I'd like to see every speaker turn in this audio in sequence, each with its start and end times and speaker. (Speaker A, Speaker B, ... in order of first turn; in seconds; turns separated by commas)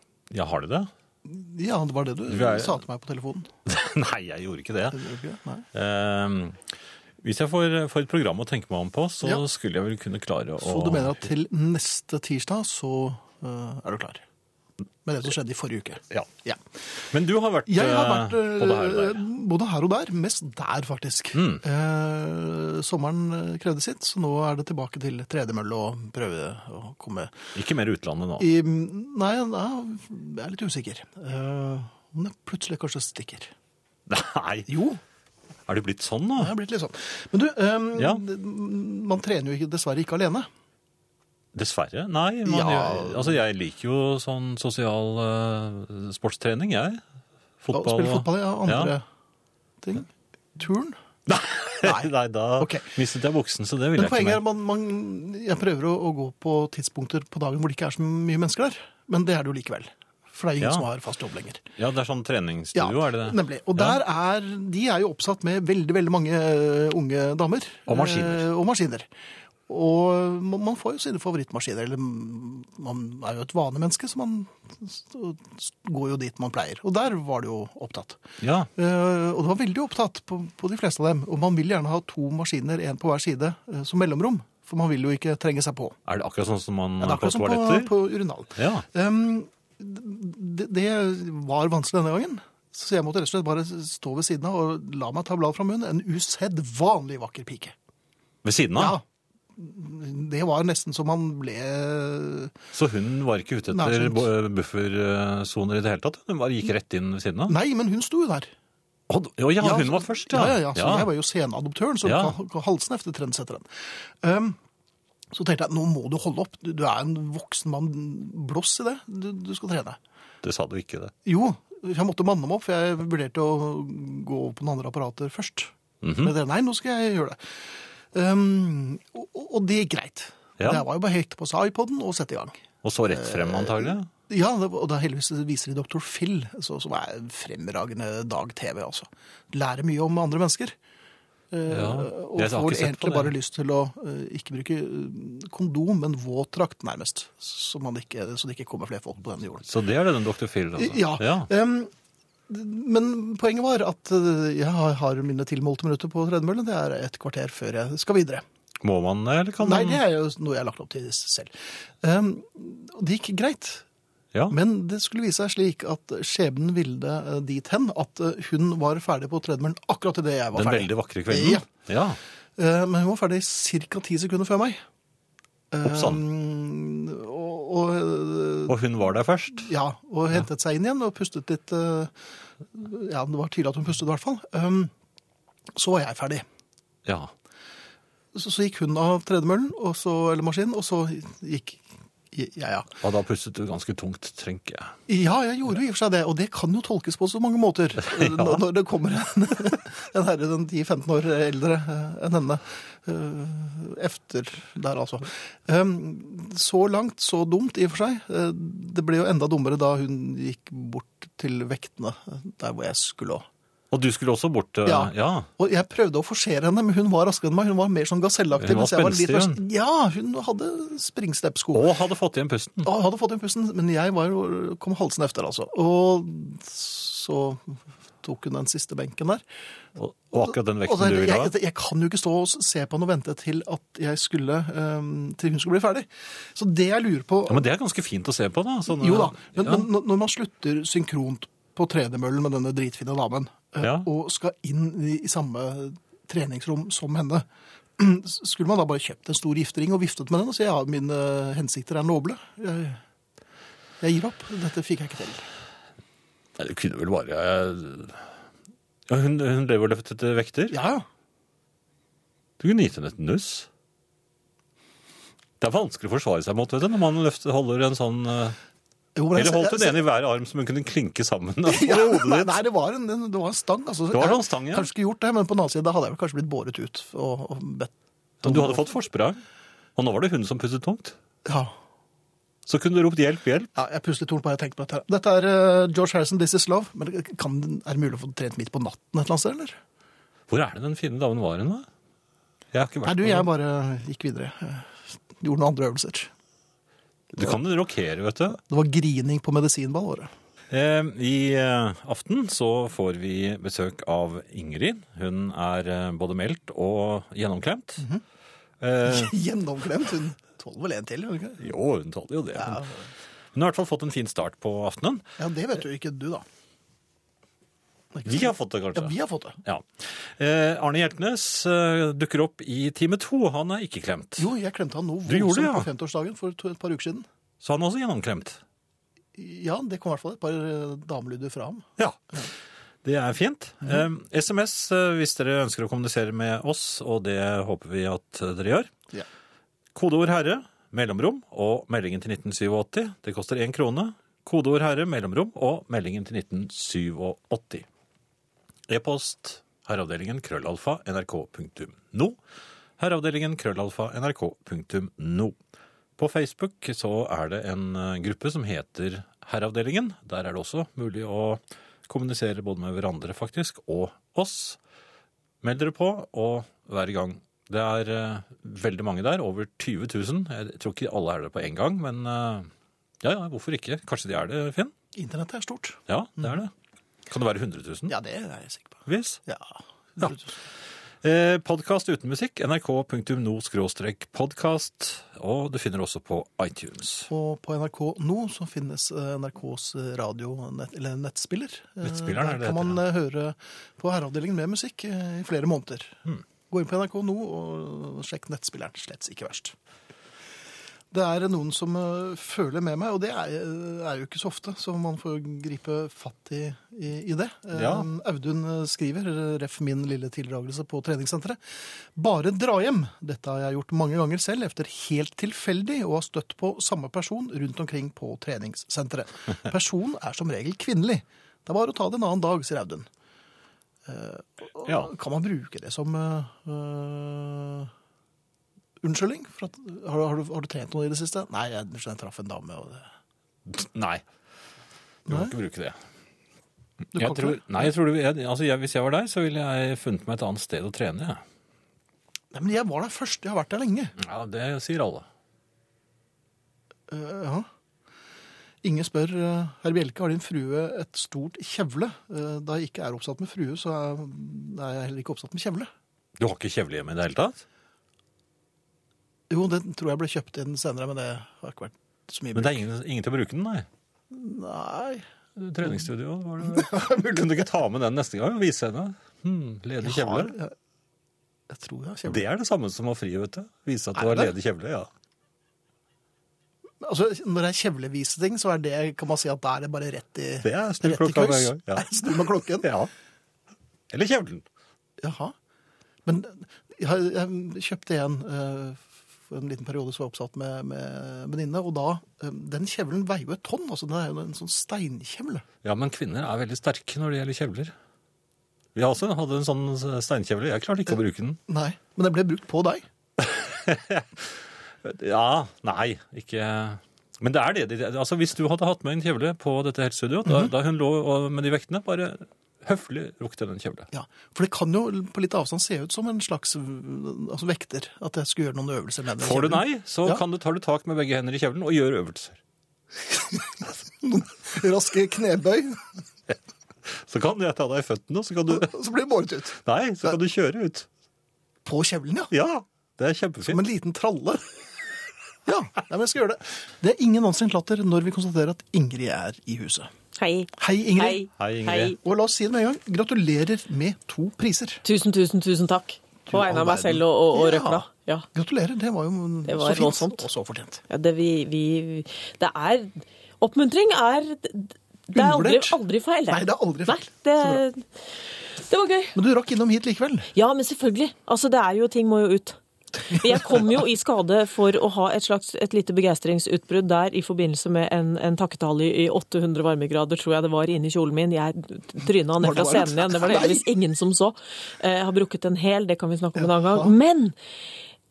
Speaker A: 0.3-0.9, Speaker B: 1.2-3.5, Speaker A: 2.3-2.8, Speaker A: 3.7-5.0, Speaker B: 4.9-5.6, Speaker A: 5.7-6.6, Speaker A: 7.2-11.2, Speaker B: 10.6-14.2, Speaker B: 15.0-16.6, Speaker A: 17.1-19.2, Speaker B: 17.7-27.4, Speaker A: 21.3-21.6, Speaker A: 27.5-28.5, Speaker B: 28.4-33.5, Speaker A: 34.1-34.7, Speaker B: 34.7-35.0, Speaker A: 35.7-36.5, Speaker B: 36.4-40.5, Speaker A: 38.0-38.2, Speaker A: 41.5-47.0, Speaker B: 42.4-43.4, Speaker A: 47.6-48.9, Speaker B: 47.7-49.0, Speaker B: 49.8-51.0, Speaker A: 51.3-54.4, Speaker B: 51.8-52.9, Speaker B: 54.0-61.6, Speaker A: 60.6-60.9, Speaker A: 61.8-64.0, Speaker B: 62.7-69.1, Speaker A: 67.9-68.4, Speaker B: 69.7-78.2, Speaker A: 78.4-78.7, Speaker B: 78.8-85.9, Speaker A: 86.1-87.9, Speaker B: 87.0-97.7, Speaker A: 88.6-88.8, Speaker A: 98.4-99.0, Speaker B: 98.7-99.0, Speaker B: 99.5-102.5, Speaker A: 102.7-107.6, Speaker B: 103.7-104.2, Speaker B: 107.5-108.5, Speaker A: 109.1-111.1, Speaker B: 109.6-114.6, Speaker A: 112.0-112.3, Speaker B: 115.3-120.0, Speaker A: 120.4-121.1, Speaker B: 121.2-140.8, Speaker A: 126.0-126.3, Speaker A: 130.6-130.8, Speaker A: 132.8-134.1, Speaker B: 141.5-149.6, Speaker A: 141.7-143.3, Speaker A: 149.6-151.5, Speaker B: 150.8-151.9, Speaker B: 152.5-158.4, Speaker A: 158.8-160.0, Speaker B: 159.6-163.8, Speaker B: 164.5-171.7, Speaker A: 170.5-172.2, Speaker B: 172.6-174.8, Speaker B: 175.7-178.8, Speaker A: 175.8-176.2, Speaker A: 178.7-179.7, Speaker B: 179.6-182.2, Speaker B: 182.7-184.9, Speaker B: 185.7-186.4, Speaker A: 187.1-187.3, Speaker B: 188.3-192.9, Speaker A: 193.0-194.9, Speaker B: 195.1-213.4, Speaker A: 198.1-198.6, Speaker A: 213.9-215.5, Speaker B: 214.8-221.9, Speaker A: 218.6-219.6, Speaker A: 221.7-222.9, Speaker B: 222.8-229.4, Speaker A: 229.9-231.5, Speaker B: 230.3-237.7, Speaker A: 237.5-239.9, Speaker B: 238.9-247.4, Speaker A: 243.8-244.1, Speaker B: 248.0-253.0, Speaker B: 254.0-255.5, Speaker A: 256.6-258.2, Speaker A: 259.1-260.8, Speaker B: 260.7-261.0, Speaker A: 262.6-263.7, Speaker A: 265.6-268.6, Speaker B: 269.1-270.0, Speaker A: 269.4-272.5, Speaker B: 271.7-278.9, Speaker A: 274.1-274.9, Speaker A: 278.4-279.4, Speaker A: 280.0-281.1, Speaker B: 281.4-281.7, Speaker A: 282.7-283.7, Speaker B: 283.7-289.8, Speaker A: 290.5-291.9, Speaker A: 292.7-293.5, Speaker B: 293.0-296.3, Speaker A: 297.3-298.6, Speaker B: 298.5-300.3, Speaker A: 300.7-308.1, Speaker A: 308.8-309.3, Speaker B: 309.0-311.7, Speaker A: 311.6-312.9, Speaker B: 312.5-313.0, Speaker A: 313.5-315.2, Speaker B: 315.4-316.4, Speaker B: 318.1-319.6, Speaker A: 318.2-324.5, Speaker B: 324.4-327.2, Speaker A: 325.3-325.9, Speaker A: 327.6-328.6, Speaker B: 329.3-331.9, Speaker A: 332.0-332.4, Speaker A: 333.0-338.9, Speaker A: 339.9-347.9, Speaker A: 348.9-352.4, Speaker A: 353.0-355.6, Speaker A: 356.2-364.8, Speaker A: 365.6-372.7, Speaker A: 373.2-374.9, Speaker B: 375.1-376.5, Speaker A: 376.1-376.7, Speaker A: 377.3-378.1, Speaker B: 378.1-380.5, Speaker A: 379.1-379.4, Speaker A: 381.2-387.3, Speaker B: 387.3-399.7, Speaker A: 392.0-393.0, Speaker B: 401.1-423.1, Speaker A: 407.7-408.1, Speaker B: 424.1-427.9, Speaker A: 424.9-425.1, Speaker B: 429.0-433.1, Speaker A: 433.7-434.2, Speaker A: 435.2-436.0, Speaker B: 435.3-435.5, Speaker B: 437.1-437.9, Speaker A: 437.1-441.4, Speaker B: 442.5-444.1, Speaker A: 444.2-445.2, Speaker B: 447.1-447.6, Speaker B: 448.8-455.9, Speaker A: 456.4-457.6, Speaker B: 459.5-462.8, Speaker A: 462.5-463.9, Speaker B: 464.3-465.2, Speaker A: 465.6-470.5, Speaker B: 466.6-467.6, Speaker B: 470.0-470.7, Speaker B: 471.7-472.4, Speaker A: 472.3-475.1, Speaker B: 474.1-474.5, Speaker B: 477.0-482.9, Speaker A: 480.6-482.2, Speaker A: 482.7-483.1, Speaker A: 484.1-484.6, Speaker B: 485.2-485.5, Speaker B: 486.2-495.6, Speaker A: 495.8-497.9, Speaker A: 498.9-501.6, Speaker B: 501.7-503.1, Speaker A: 503.4-514.1, Speaker B: 510.4-510.7, Speaker B: 514.1-520.4, Speaker A: 519.4-522.6, Speaker B: 523.3-526.0, Speaker A: 527.0-528.9, Speaker B: 528.7-530.4, Speaker A: 529.8-531.1, Speaker B: 531.8-532.5, Speaker A: 532.5-533.8, Speaker B: 533.7-534.6, Speaker B: 535.6-540.1, Speaker C: 540.3-542.2, Speaker B: 540.8-541.5, Speaker A: 541.6-542.1, Speaker B: 542.1-545.0, Speaker C: 545.0-548.5, Speaker B: 546.5-551.0, Speaker C: 549.6-550.5, Speaker C: 551.1-558.0, Speaker B: 555.3-557.8, Speaker C: 558.8-559.4, Speaker B: 559.3-560.5, Speaker C: 560.5-577.5, Speaker B: 563.3-563.8, Speaker B: 572.6-573.9, Speaker B: 576.6-577.1